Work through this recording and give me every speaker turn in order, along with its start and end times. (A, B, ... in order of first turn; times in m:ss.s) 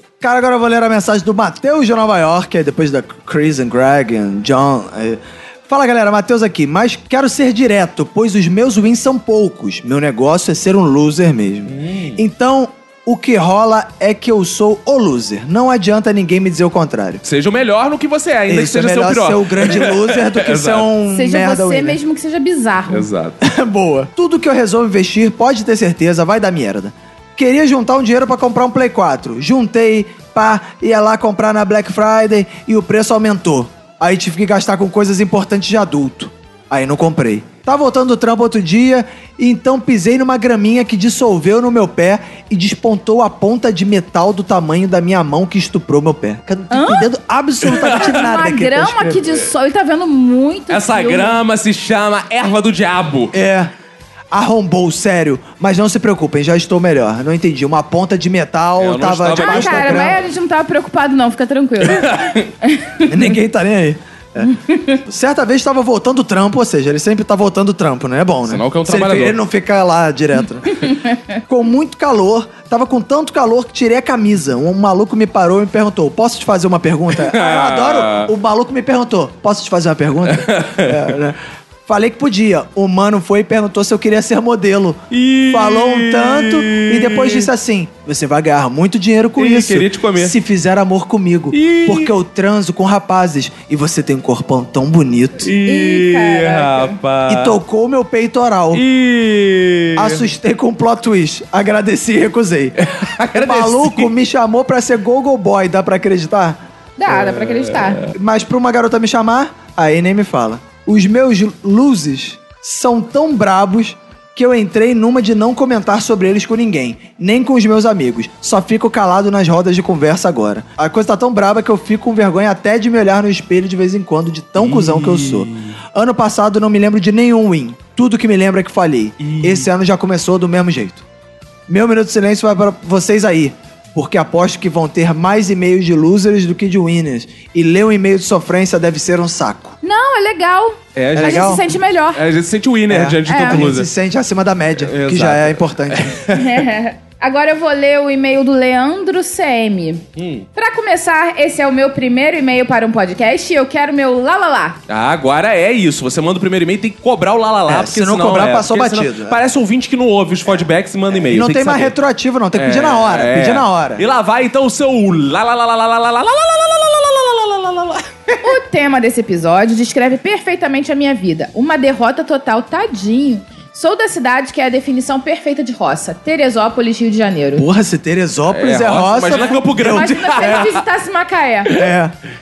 0:00.2-0:17.2 A
0:11.7-0:12.2 B
0:17.2-0:20.9 B
0:18.5-0:22.0 A
0:21.1-0:23.1 C
0:22.9-0:23.4 B
0:23.4-0:49.3 A
0:46.7-0:47.1 C
0:47.7-0:48.1 B
0:47.8-0:51.4 C
0:50.7-0:53.3 B
0:53.3-0:53.7 A
0:54.3-1:00.2 A
0:58.8-1:00.2 B
0:59.3-1:03.3 C
1:01.8-1:02.5 B
1:03.1-1:04.5 A
1:04.4-1:05.0 C
1:05.1-1:10.8 A
1:08.5-1:09.4 B
1:10.7-1:11.4 C
1:11.5-1:25.0 A
1:17.1-1:18.3 B
1:20.3-1:21.0 B
1:25.1-1:27.5 B
1:25.5-1:35.5 A
1:29.4-1:30.4 B
1:31.5-1:32.1 B
1:35.4-1:37.6 B
1:35.6-1:37.0 C
1:37.3-1:38.8 A
1:38.7-1:40.3 B
1:40.0-1:42.8 A
1:42.8-1:44.1 B
1:43.3-1:46.6 A
1:47.0-1:48.1 C
1:47.1-1:48.1 B
1:48.1-2:11.0 A
2:04.6-2:05.8 B
2:09.2-2:09.7 B
2:11.7-2:19.8 A
2:19.8-2:22.2 C
2:21.0-2:21.6 B
2:21.2-2:21.6 A
2:22.2-2:23.9 B
2:22.9-2:26.2 A
2:23.3-2:23.7 C
2:24.8-2:26.7 B
2:26.3-2:30.0 C
2:30.2-2:30.5 B
2:30.6-2:34.8 C
2:34.9-2:42.0 B
2:37.7-2:39.4 A
2:41.3-2:44.0 A
2:42.6-2:48.6 B
2:48.4-2:57.7 C
2:57.6-3:00.7 A
2:58.5-3:00.8 B
2:59.4-3:01.8 C
3:01.7-3:02.1 A